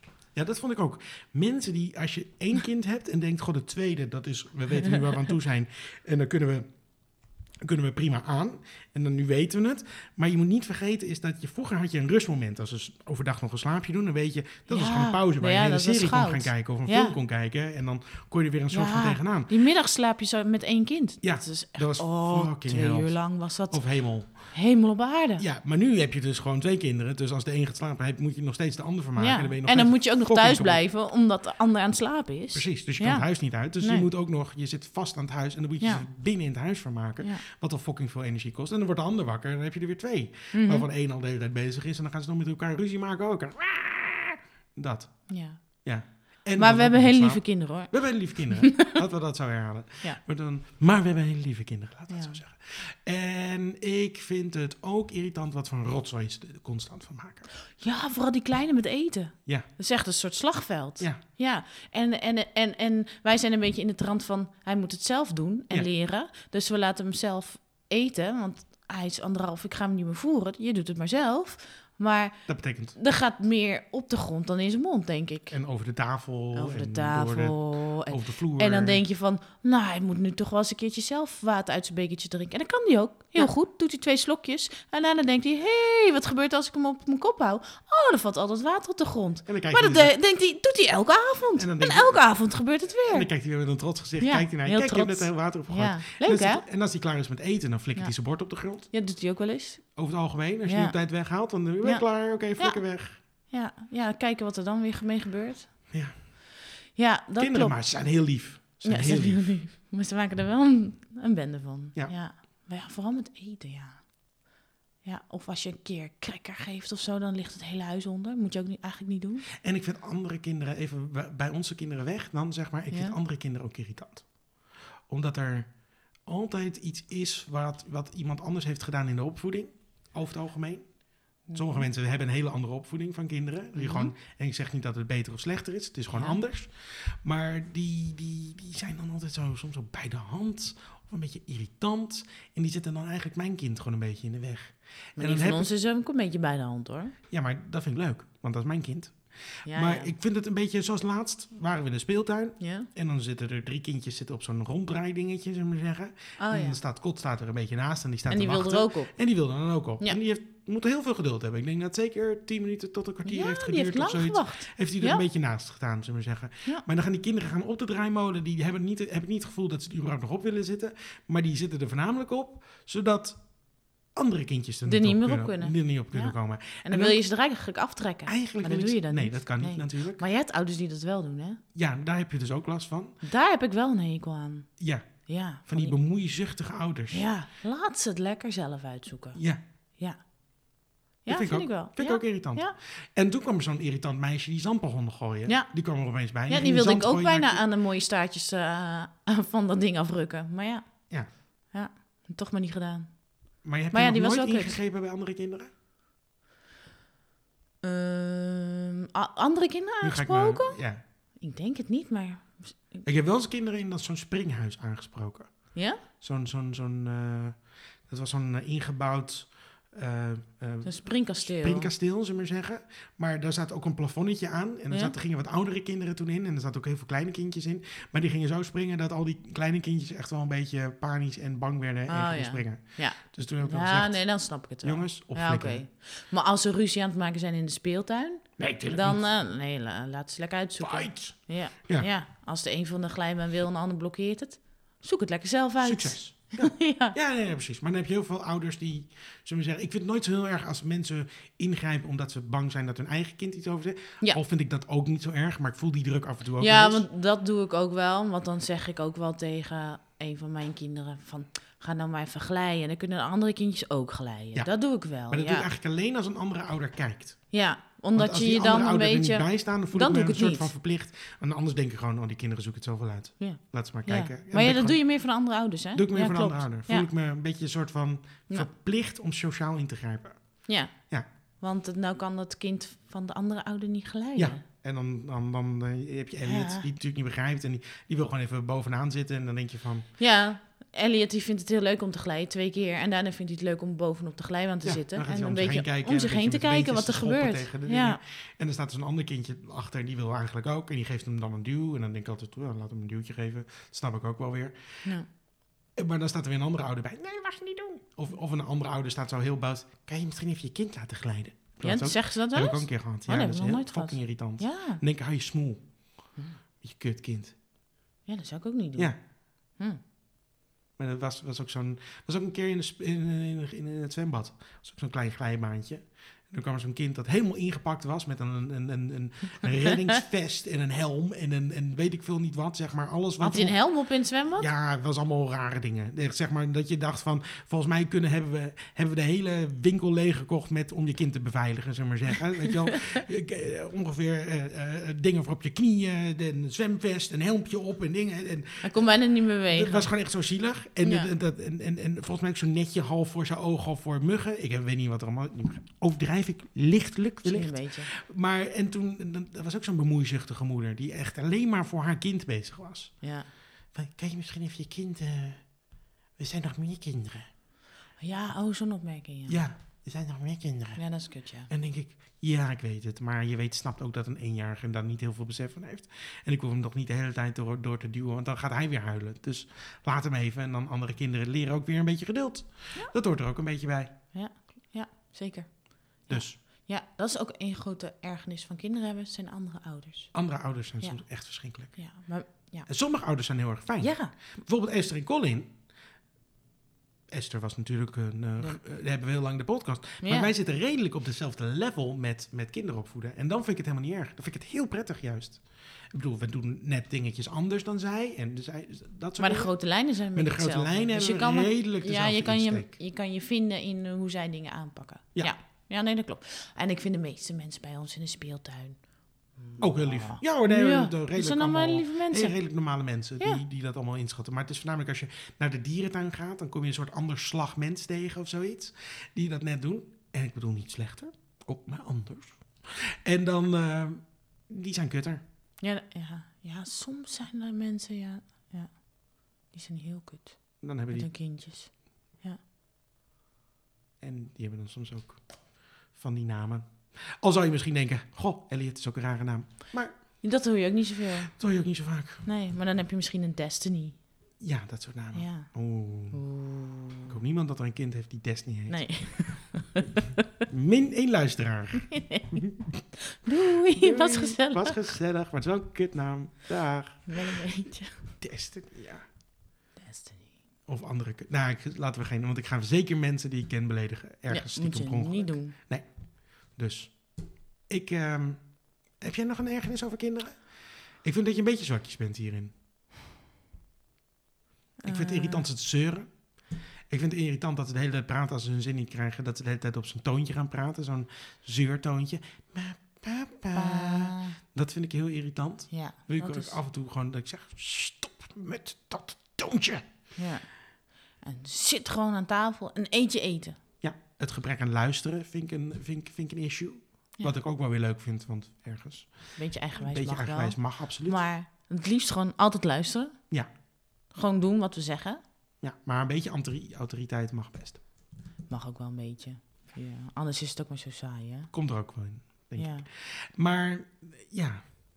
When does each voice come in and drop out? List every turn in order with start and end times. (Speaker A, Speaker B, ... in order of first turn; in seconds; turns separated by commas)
Speaker A: 0.3-6.7, Speaker A: 7.6-19.5, Speaker B: 14.7-17.2, Speaker B: 18.7-23.8, Speaker A: 21.2-23.1, Speaker A: 23.7-24.4, Speaker B: 24.5-25.4, Speaker A: 25.4-30.8, Speaker B: 29.2-33.3, Speaker A: 32.5-57.5, Speaker B: 33.8-34.1, Speaker B: 35.8-36.1, Speaker B: 40.5-40.9, Speaker B: 45.3-45.8, Speaker B: 46.6-49.0, Speaker B: 52.1-52.4, Speaker B: 57.8-75.6, Speaker A: 72.5-73.0, Speaker A: 75.5-79.0, Speaker B: 76.5-93.3, Speaker A: 89.5-90.1, Speaker A: 91.6-92.2, Speaker A: 93.1-98.9, Speaker B: 94.2-96.6, Speaker B: 98.9-100.0, Speaker A: 100.0-103.2, Speaker B: 100.7-101.0, Speaker B: 101.8-105.8, Speaker A: 105.9-106.2, Speaker B: 107.0-107.8, Speaker A: 107.4-109.5, Speaker B: 108.8-114.0, Speaker B: 115.0-119.5, Speaker A: 119.6-124.3, Speaker B: 122.9-123.2, Speaker A: 125.1-145.7, Speaker B: 131.5-131.9, Speaker B: 133.8-134.1, Speaker B: 136.1-136.4, Speaker B: 145.2-147.2, Speaker A: 147.3-173.4, Speaker B: 149.7-150.1, Speaker B: 152.6-152.9, Speaker B: 156.4-156.8, Speaker B: 158.3-159.1, Speaker B: 163.3-165.2, Speaker A: 174.2-177.2, Speaker B: 174.9-181.6, Speaker A: 178.3-180.2, Speaker A: 181.8-183.2, Speaker B: 183.2-184.7, Speaker A: 184.8-185.1, Speaker B: 185.3-185.9, Speaker A: 185.7-187.3, Speaker B: 187.1-189.4, Speaker A: 189.3-189.6, Speaker B: 191.2-192.8, Speaker A: 191.3-197.6, Speaker B: 195.5-195.9, Speaker B: 196.5-203.2, Speaker A: 203.6-205.7, Speaker B: 203.9-204.8, Speaker B: 207.8-210.8, Speaker A: 210.0-211.0, Speaker B: 211.4-213.0, Speaker A: 213.0-234.2, Speaker B: 215.8-216.0, Speaker B: 220.8-221.9, Speaker B: 232.1-247.2, Speaker A: 234.8-235.8, Speaker A: 238.6-239.2, Speaker A: 240.8-242.1, Speaker A: 245.8-257.1, Speaker B: 256.6-265.7, Speaker A: 265.3-267.4, Speaker B: 267.5-270.7, Speaker A: 268.1-275.0, Speaker B: 273.4-277.1, Speaker A: 275.9-280.4, Speaker B: 280.7-280.9, Speaker B: 281.6-284.6, Speaker A: 284.4-290.1, Speaker B: 286.4-286.8, Speaker B: 290.2-298.2, Speaker A: 294.8-305.1, Speaker A: 306.0-315.8, Speaker B: 311.8-315.0, Speaker A: 316.8-317.6, Speaker B: 318.3-319.1, Speaker A: 321.0-333.8, Speaker B: 333.4-334.7, Speaker A: 334.6-349.1, Speaker B: 348.8-350.1, Speaker A: 349.7-363.1, Speaker B: 351.0-351.3, Speaker B: 357.4-358.1, Speaker B: 363.2-363.5, Speaker A: 363.9-365.6, Speaker A: 366.4-367.5, Speaker B: 368.2-369.6, Speaker A: 369.5-371.0, Speaker B: 371.0-371.7, Speaker A: 371.7-384.1, Speaker B: 384.3-390.3, Speaker A: 386.3-386.6, Speaker A: 390.3-392.0, Speaker B: 391.9-392.9, Speaker A: 392.9-395.7, Speaker B: 394.0-394.3, Speaker A: 397.3-409.7, Speaker B: 400.2-400.5, Speaker B: 409.4-419.0, Speaker A: 410.3-412.9, Speaker B: 419.6-422.6, Speaker A: 419.8-435.4, Speaker B: 435.8-442.6, Speaker A: 440.8-441.3, Speaker A: 444.2-445.4, Speaker A: 446.1-450.2, Speaker B: 450.4-451.5, Speaker A: 451.6-452.4, Speaker B: 452.4-454.2, Speaker A: 454.6-456.4, Speaker B: 455.4-455.7, Speaker B: 456.3-457.4, Speaker A: 457.3-459.0, Speaker B: 458.9-460.4, Speaker A: 460.7-463.0, Speaker B: 462.1-462.6, Speaker B: 463.3-465.1, Speaker A: 464.0-467.5, Speaker B: 467.3-468.2, Speaker A: 468.4-469.3, Speaker B: 470.0-470.5, Speaker A: 470.9-476.1, Speaker B: 474.5-475.8, Speaker A: 476.6-477.2, Speaker A: 477.9-480.6, Speaker A: 481.2-482.7, Speaker B: 485.0-485.6, Speaker A: 485.1-486.4, Speaker A: 487.1-500.1, Speaker B: 493.8-494.6, Speaker B: 495.9-496.8, Speaker B: 500.4-500.7, Speaker B: 501.4-503.8, Speaker A: 504.0-511.4, Speaker B: 509.6-513.4, Speaker B: 514.3-515.4, Speaker A: 515.8-518.0, Speaker B: 518.7-521.7, Speaker A: 521.7-524.9, Speaker B: 522.8-523.1